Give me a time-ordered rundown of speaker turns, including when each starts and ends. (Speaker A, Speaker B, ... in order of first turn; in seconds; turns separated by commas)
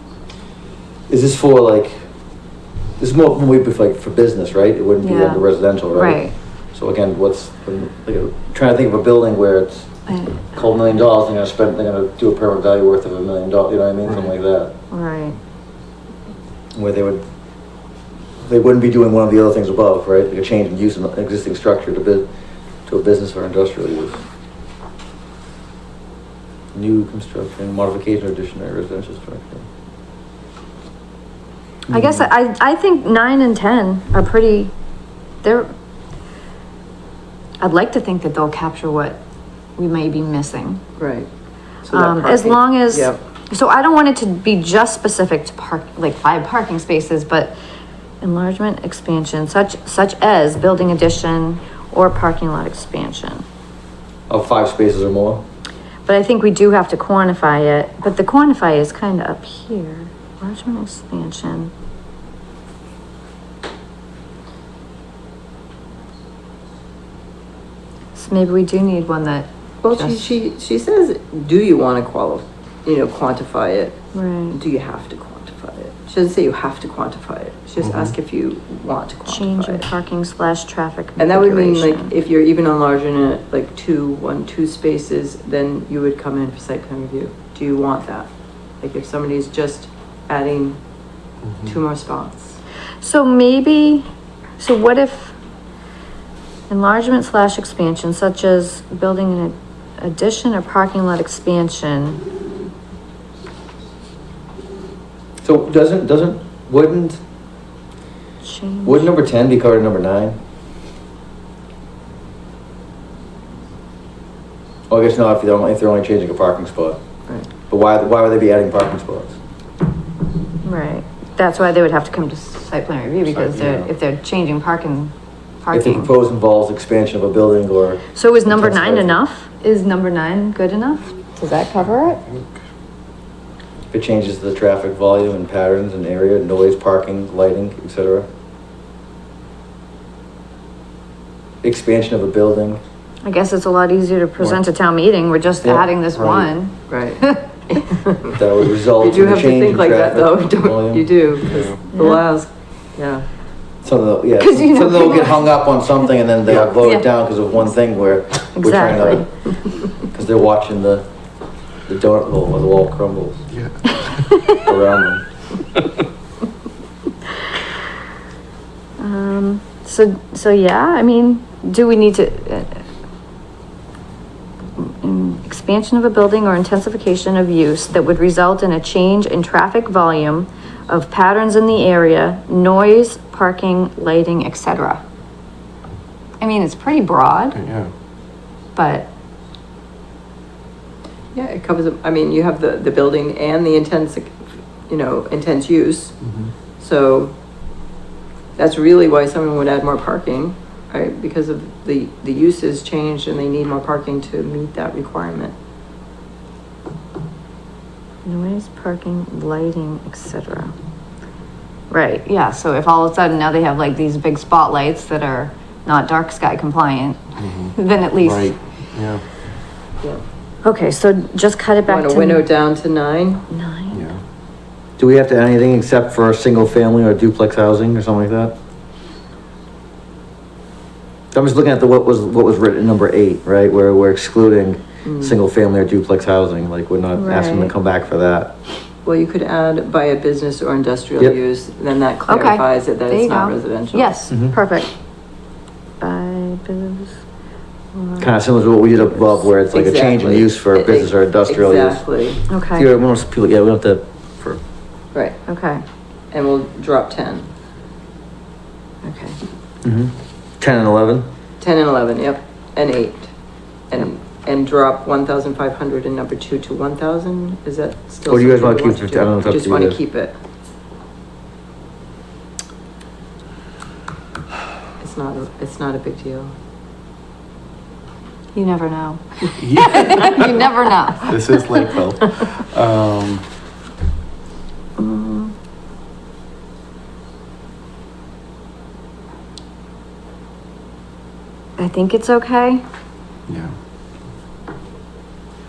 Speaker A: 1.1-2.1, Speaker A: 3.0-14.7, Speaker B: 5.0-6.3, Speaker B: 10.1-10.7, Speaker B: 14.9-15.4, Speaker A: 16.8-17.2, Speaker A: 18.4-22.3, Speaker A: 22.9-24.2, Speaker A: 26.7-29.6, Speaker B: 31.9-34.7, Speaker B: 35.4-35.7, Speaker B: 37.6-39.2, Speaker B: 39.8-40.8, Speaker C: 41.0-41.3, Speaker C: 41.8-43.2, Speaker B: 41.9-47.5, Speaker B: 48.2-53.4, Speaker A: 54.3-55.4, Speaker B: 56.1-61.7, Speaker B: 68.1-70.3, Speaker C: 69.8-74.0, Speaker B: 74.1-74.6, Speaker C: 74.5-79.8, Speaker D: 77.8-78.1, Speaker B: 79.2-82.1, Speaker C: 81.2-88.3, Speaker C: 88.8-90.8, Speaker C: 91.6-92.6, Speaker B: 93.0-94.1, Speaker B: 94.6-95.3, Speaker B: 96.7-102.2, Speaker A: 105.4-107.2, Speaker B: 108.4-109.1, Speaker A: 108.8-110.4, Speaker A: 114.9-117.0, Speaker A: 117.7-119.4, Speaker B: 120.6-126.1, Speaker D: 123.3-123.9, Speaker A: 125.7-129.2, Speaker B: 128.1-132.2, Speaker D: 132.3-132.5, Speaker A: 133.9-138.3, Speaker A: 141.6-142.8, Speaker B: 143.2-147.7, Speaker A: 145.6-146.5, Speaker C: 146.9-153.2, Speaker A: 148.3-151.1, Speaker D: 151.4-151.8, Speaker B: 151.9-152.2, Speaker A: 153.8-159.3, Speaker B: 154.4-155.6, Speaker B: 156.8-157.1, Speaker B: 158.5-159.3, Speaker A: 160.0-161.1, Speaker A: 161.8-163.5, Speaker D: 163.5-163.9, Speaker B: 164.0-164.6, Speaker A: 164.5-165.2, Speaker B: 169.0-172.8, Speaker B: 174.8-185.0, Speaker B: 186.4-187.6, Speaker D: 187.5-187.9, Speaker B: 188.8-189.1, Speaker C: 191.3-196.2, Speaker D: 196.2-196.5, Speaker C: 196.8-197.3, Speaker C: 198.6-205.5, Speaker B: 208.2-210.7, Speaker B: 211.9-218.6, Speaker D: 217.4-219.2, Speaker B: 220.6-222.5, Speaker C: 221.8-223.4, Speaker B: 223.5-224.1, Speaker D: 223.9-224.2, Speaker A: 225.0-228.5, Speaker A: 231.3-238.5, Speaker C: 235.0-235.3, Speaker B: 237.1-237.7, Speaker C: 239.0-244.2, Speaker B: 242.3-244.9, Speaker A: 244.3-244.6, Speaker B: 246.0-247.2, Speaker B: 247.9-248.3, Speaker A: 248.2-252.0, Speaker B: 248.9-249.3, Speaker C: 249.7-252.4, Speaker B: 252.5-252.9, Speaker A: 252.7-254.6, Speaker B: 255.5-255.8, Speaker C: 256.3-257.5, Speaker B: 259.0-259.4, Speaker A: 259.8-261.3, Speaker C: 261.6-263.3, Speaker C: 263.9-270.3, Speaker A: 268.3-270.0, Speaker C: 275.0-276.5, Speaker B: 278.5-281.8, Speaker D: 279.6-283.4, Speaker B: 285.0-285.5, Speaker B: 291.8-292.8, Speaker D: 293.5-293.7